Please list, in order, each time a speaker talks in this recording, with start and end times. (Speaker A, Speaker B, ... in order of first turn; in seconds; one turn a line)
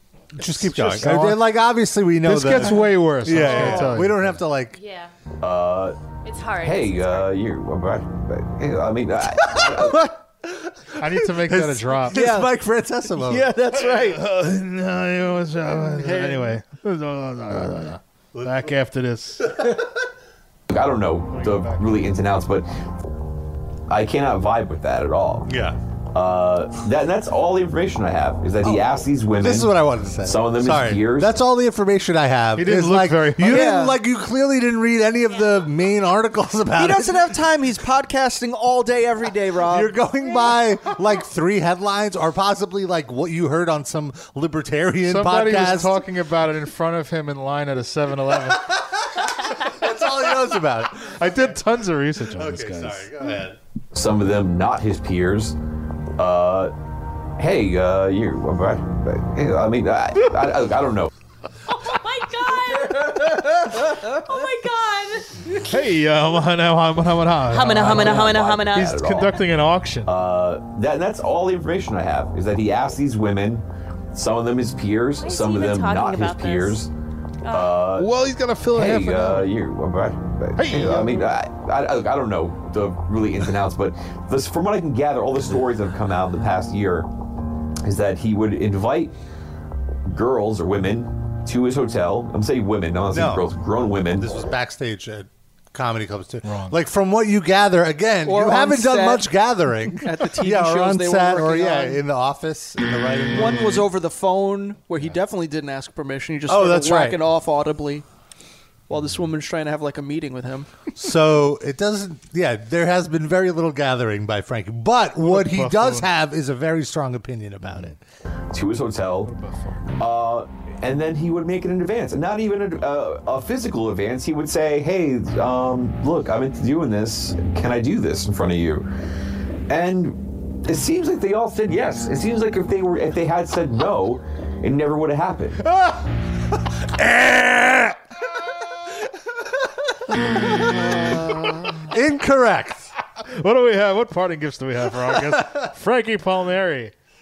Speaker A: 0.3-4.8
Speaker B: 0.4-1.5
Speaker B: 2.2-4.4
Speaker C: 4.7-5.1
Speaker D: 5.4-6.0
Speaker C: 6.2-7.3
Speaker D: 6.6-10.1
Speaker A: 9.4-13.5
Speaker B: 11.0-12.2
Speaker E: 12.1-12.5
Speaker E: 13.2-14.2
Speaker B: 13.8-19.7
Speaker E: 15.7-16.6
Speaker A: 18.4-18.7
Speaker D: 20.7-22.7
Speaker B: 21.3-22.0
Speaker D: 23.9-25.5
Speaker A: 25.5-25.8
Speaker D: 26.1-31.4
Speaker A: 28.6-37.4
Speaker B: 32.6-33.7
Speaker E: 33.5-34.0
Speaker C: 35.3-35.7
Speaker E: 36.8-40.0
Speaker A: 39.7-46.1
Speaker B: 45.1-48.8
Speaker A: 48.7-51.5
Speaker B: 51.0-53.1
Speaker A: 52.2-53.6
Speaker D: 53.9-55.6
Speaker D: 56.2-56.7
Speaker D: 57.4-61.1
Speaker C: 61.7-65.5
Speaker B: 65.6-70.1
Speaker C: 67.5-69.0
Speaker D: 67.8-69.4
Speaker D: 70.1-76.9
Speaker C: 75.2-76.8
Speaker C: 77.4-77.8
Speaker D: 77.5-78.1
Speaker B: 78.0-79.5
Speaker D: 78.7-87.1
Speaker B: 80.6-81.3
Speaker D: 87.8-89.1
Speaker D: 90.1-94.3
Speaker A: 93.1-93.5
Speaker A: 94.2-103.9
Speaker B: 96.4-96.8
Speaker E: 98.2-99.3
Speaker E: 100.0-102.0
Speaker E: 103.3-108.0
Speaker A: 106.5-107.2
Speaker E: 108.9-110.7
Speaker A: 111.0-118.0
Speaker B: 115.2-116.1
Speaker B: 117.7-118.0
Speaker D: 118.5-119.3
Speaker B: 119.2-119.8
Speaker D: 120.0-128.9
Speaker D: 129.7-135.7
Speaker A: 136.8-138.0
Speaker A: 140.2-141.1
Speaker E: 140.2-141.8
Speaker A: 141.8-142.9
Speaker B: 143.2-146.9
Speaker A: 145.1-145.7